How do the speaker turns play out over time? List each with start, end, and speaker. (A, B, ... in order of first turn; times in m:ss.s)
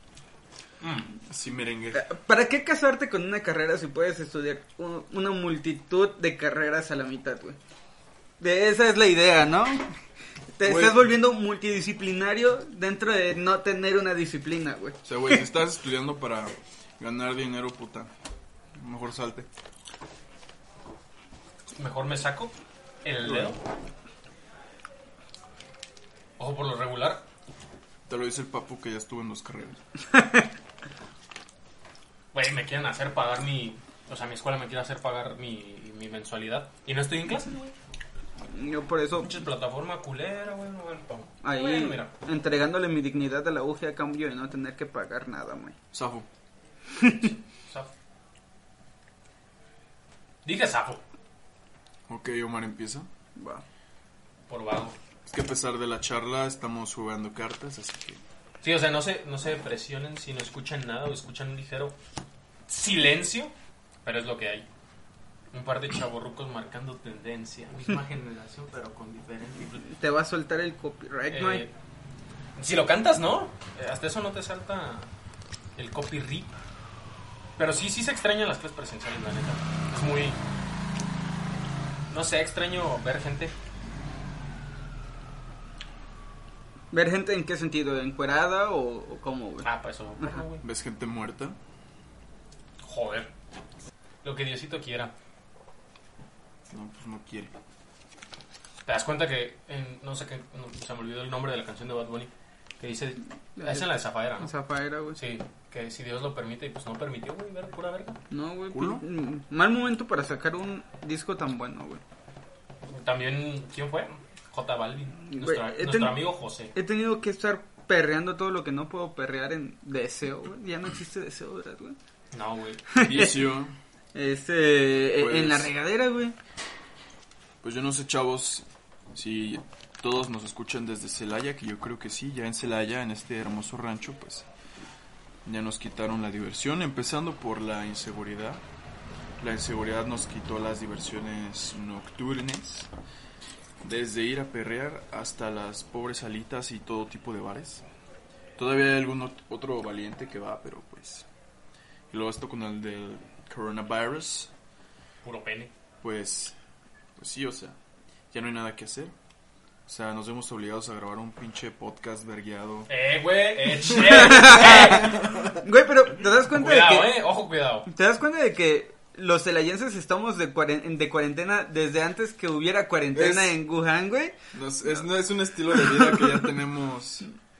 0:00.8-0:01.1 A
0:01.3-0:02.0 B
0:01.9-0:07.6 C
0:08.4-0:09.9 C
0:10.6-0:15.4 C
0:10.6-0:11.0 B
0:15.0-0:18.1 B
0:18.8-0:19.5 B
0:21.8-0:23.6 A
0:23.2-0:23.6 B
0:26.4-0:27.2 A
0:28.1-0:29.8 B
0:32.3-0:37.7 A
0:38.5-0:39.4 C
0:39.2-0:42.1 A
0:41.4-0:45.8 C
0:45.9-0:46.3 B
0:47.0-0:47.3 C
0:47.2-0:47.9 A
0:50.4-0:51.0 A
0:52.1-0:53.1 B
0:53.4-0:53.6 C
0:54.5-0:55.0 A
0:55.3-0:58.2 B
0:58.6-1:02.0 A
1:02.7-1:04.7 A
1:05.5-1:09.9 A
1:09.8-1:11.6 C
1:11.3-1:11.7 A
1:12.6-1:15.1 A
1:15.8-1:16.6 A
1:17.6-1:20.4 A
1:22.1-1:23.5 A
1:26.9-1:29.7 C
1:29.6-1:30.6 A
1:30.6-1:31.6 B
1:32.8-1:33.3 A
1:34.2-1:35.1 A
1:36.7-1:37.5 B
1:38.9-1:44.5 A
1:43.6-1:45.2 C
1:45.2-1:48.2 A
1:48.3-1:52.0 C
1:48.7-1:49.0 B
1:52.9-1:56.8 A
1:55.2-2:02.0 C
2:02.3-2:03.2 A
2:02.9-2:03.4 C
2:03.0-2:03.7 B
2:04.1-2:06.4 C
2:05.1-2:05.7 B
2:07.6-2:14.5 B
2:15.4-2:18.6 B
2:19.4-2:22.9 B
2:23.8-2:27.8 B
2:28.6-2:31.3 B
2:32.1-2:34.5 B
2:35.2-2:35.7 A
2:36.0-2:36.6 B
2:37.2-2:37.8 B
2:38.3-2:39.1 B
2:39.9-2:42.9 B
2:42.9-2:45.5 A
2:43.9-2:47.2 C
2:44.8-2:45.6 B
2:46.5-2:47.9 A
2:47.9-2:55.0 C
2:53.1-2:53.6 B
2:54.5-2:57.3 B
2:55.7-2:56.5 C